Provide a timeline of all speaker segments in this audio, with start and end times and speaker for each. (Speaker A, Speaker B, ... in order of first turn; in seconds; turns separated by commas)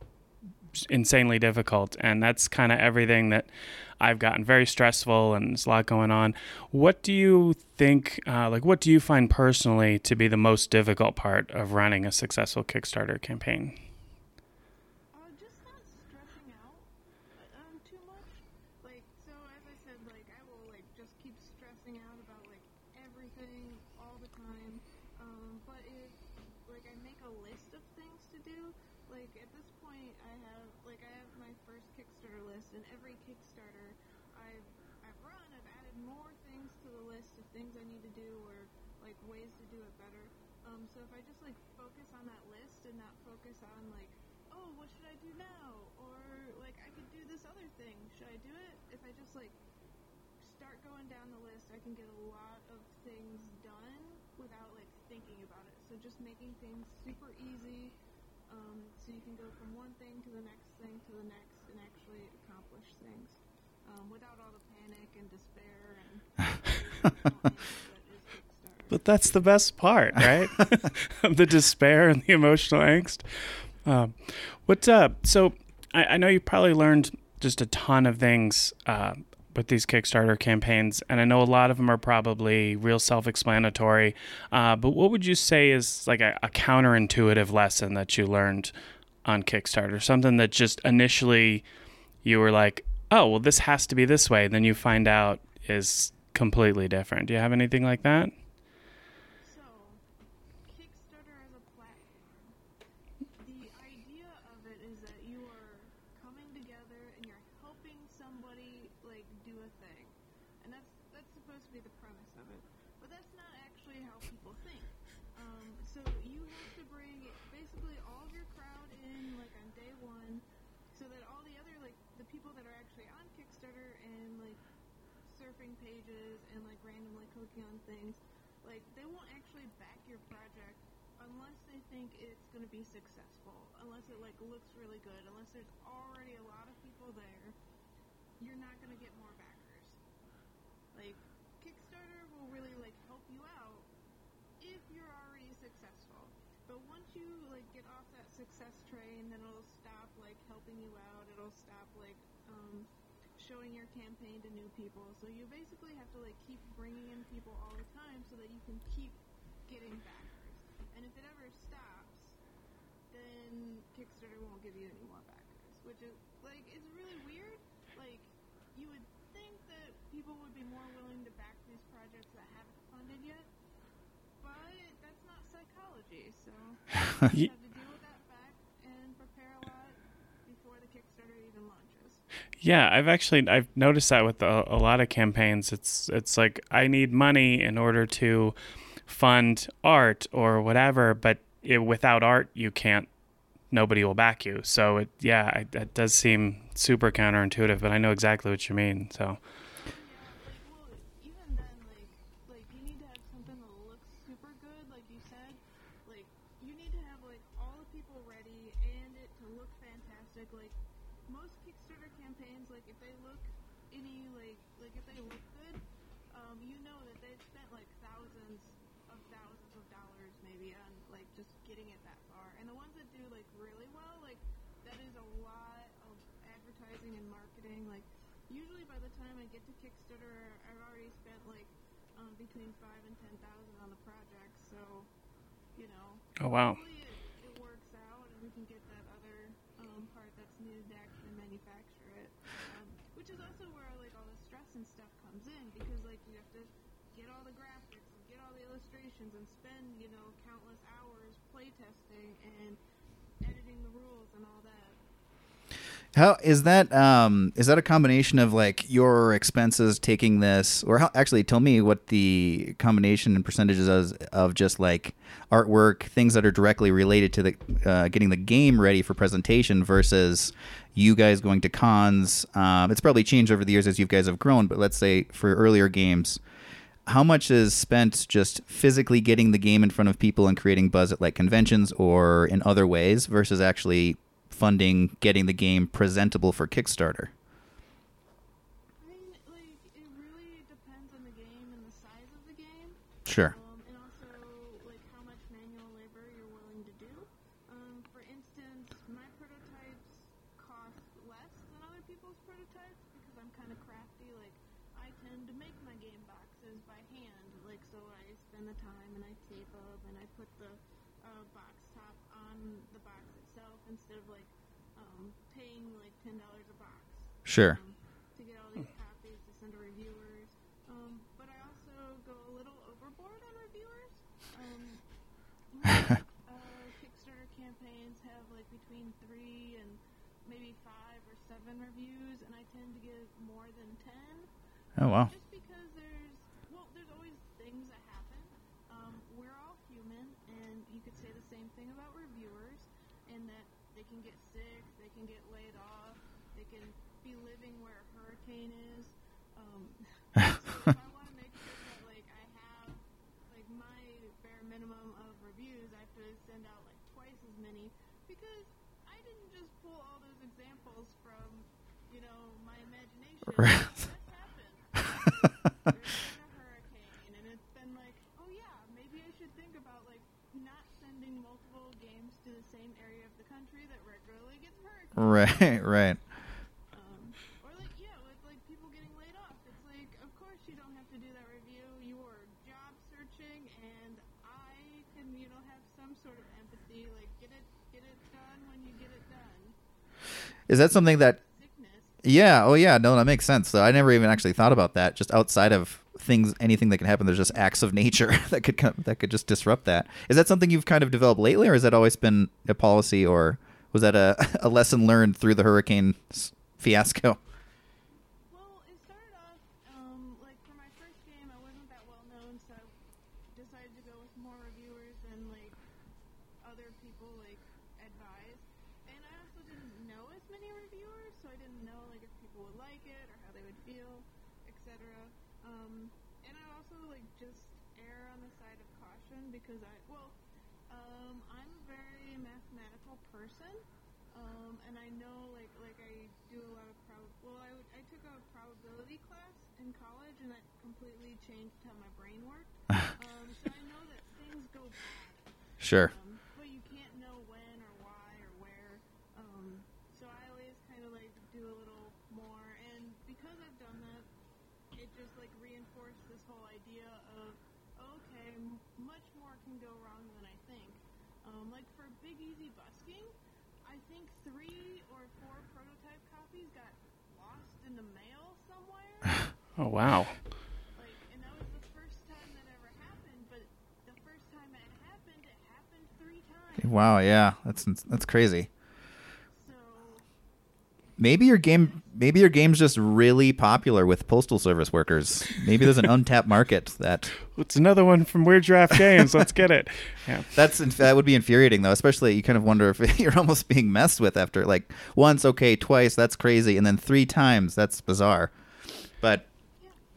Speaker A: 0.7-13.8, Speaker B: 15.1-49.6, Speaker B: 50.4-57.9, Speaker B: 58.5-69.0, Speaker A: 68.9-88.7, Speaker A: 89.2-91.6, Speaker A: 92.2-98.3, Speaker B: 99.4-100.0, Speaker B: 100.7-102.5, Speaker B: 103.4-124.6, Speaker B: 125.2-137.6, Speaker B: 138.4-140.0, Speaker B: 140.9-143.9, Speaker B: 144.6-162.4, Speaker B: 163.1-173.5, Speaker B: 174.4-182.2, Speaker A: 182.6-188.5, Speaker A: 189.1-193.1, Speaker A: 193.7-199.4, Speaker B: 199.8-210.8, Speaker B: 211.3-235.1, Speaker B: 235.8-252.8, Speaker A: 236.4-236.8, Speaker B: 253.4-255.0, Speaker C: 256.1-276.4, Speaker C: 277.1-287.3, Speaker B: 289.0-325.0, Speaker C: 293.2-293.5, Speaker C: 317.4-317.8, Speaker B: 325.7-334.5, Speaker C: 335.0-335.3, Speaker B: 335.1-376.0, Speaker C: 375.1-376.2, Speaker B: 376.9-389.8, Speaker C: 390.7-391.4, Speaker B: 391.1-392.2, Speaker C: 392.2-407.4, Speaker B: 408.5-412.9, Speaker B: 413.5-415.8, Speaker B: 416.6-430.4, Speaker B: 430.9-454.3, Speaker C: 445.8-446.1, Speaker B: 454.9-469.5, Speaker A: 469.8-470.4, Speaker B: 470.9-477.0, Speaker C: 476.8-478.7, Speaker B: 479.6-480.2, Speaker C: 481.2-487.3, Speaker A: 487.5-490.5, Speaker C: 490.5-498.5, Speaker C: 499.2-499.5